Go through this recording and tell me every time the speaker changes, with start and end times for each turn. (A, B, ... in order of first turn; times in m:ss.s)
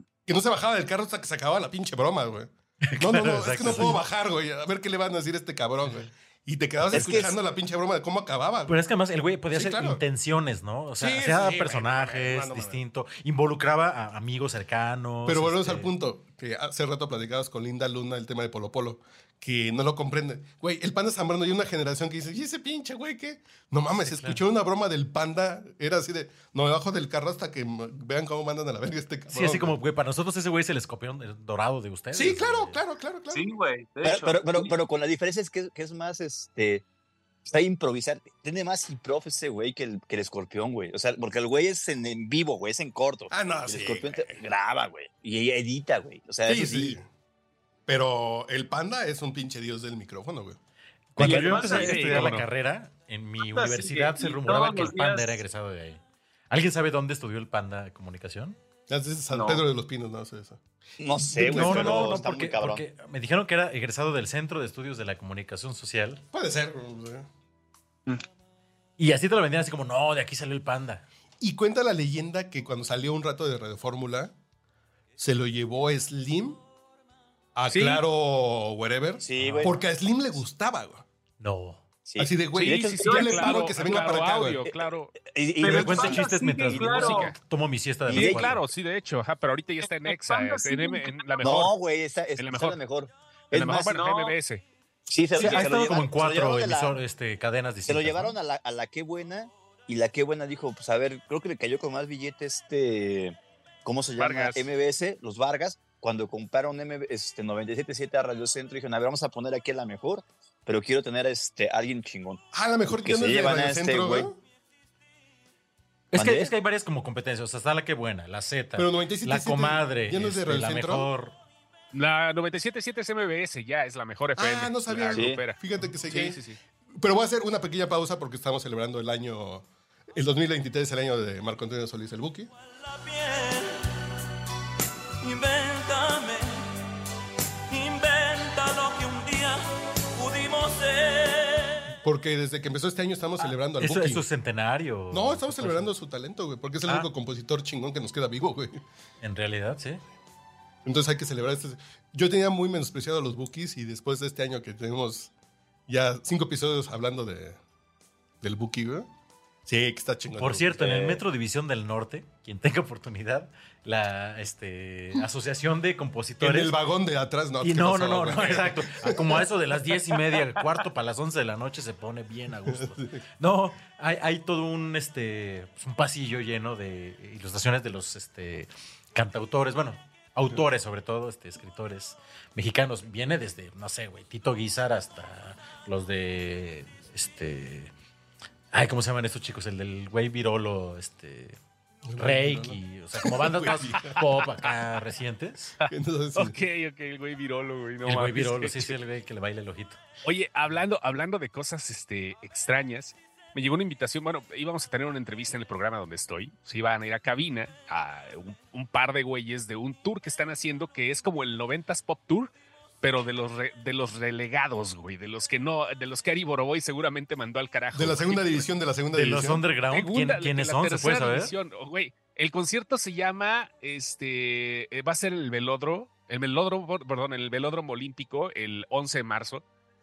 0:00.3-0:08.8 A
0:02.9-0:04.0 B
0:06.8-0:07.2 B
0:06.9-0:07.3 C
0:08.7-0:15.9 B
0:09.5-0:10.0 A
0:11.0-0:12.8 A
0:15.3-0:29.8 A
0:24.0-0:24.4 B
0:29.3-0:32.8 B
0:32.1-0:33.5 A
0:33.3-0:34.7 D
0:34.0-0:36.8 C
0:37.4-0:47.0 C
0:43.3-0:44.4 A
0:46.5-0:47.1 A
0:47.9-0:50.6 A
0:51.2-0:58.6 B
0:51.2-0:52.4 D
0:51.2-0:52.5 E
0:53.4-0:55.4 D
0:58.9-1:00.6 A
0:59.3-0:59.7 D
1:01.0-1:02.8 C
1:01.2-1:02.2 A
1:01.4-1:06.2 B
1:06.3-1:07.3 A
1:09.0-1:11.0 B
1:11.4-1:14.3 A
1:15.2-1:16.6 A
1:17.6-1:21.0 A
1:17.7-1:18.0 E
1:19.2-1:19.8 C
1:19.4-1:19.7 B
1:21.4-1:21.8 B
1:22.1-1:24.0 C
1:22.2-1:24.6 A
1:22.6-1:25.2 E
1:23.0-1:24.1 D
1:24.7-1:26.9 C
1:25.6-1:27.3 D
1:25.6-1:28.6 B
1:26.8-1:27.4 E
1:28.1-1:28.5 C
1:28.1-1:31.7 E
1:30.1-1:31.6 D
1:31.4-1:34.0 C
1:32.4-1:32.8 E
1:33.5-1:34.6 E
1:33.9-1:34.4 D
1:35.1-1:37.0 C
1:35.4-1:38.4 B
1:35.4-1:35.7 D
1:37.9-1:54.3 C
1:44.2-1:44.7 E
1:52.5-1:54.4 A
1:56.1-2:01.4 B
1:56.1-1:56.5 C
1:58.8-2:01.1 A
2:01.9-2:06.6 E
2:04.4-2:06.4 A
2:05.1-2:05.4 C
2:07.0-2:12.5 A
2:12.5-2:13.8 F
2:15.2-2:16.7 F
2:17.7-2:19.6 F
2:20.1-2:21.8 F
2:22.0-2:24.2 A
2:23.8-2:25.9 B
2:25.1-2:28.8 A
2:29.2-2:30.0 B
2:30.8-2:35.3 A
2:35.9-2:37.6 A
2:38.4-2:39.1 A
2:39.6-2:41.2 A
2:40.4-2:46.8 B
2:46.4-2:49.5 A
2:47.6-3:07.9 B
2:52.7-2:53.2 A
3:08.7-3:11.6 B
3:12.1-3:14.2 A
3:12.2-3:15.8 B
3:15.8-3:19.0 E
3:15.9-3:16.6 A
3:18.0-3:20.0 B
3:20.2-3:38.7 E
3:37.9-3:39.7 A
3:39.1-3:41.5 B
3:39.9-3:49.6 E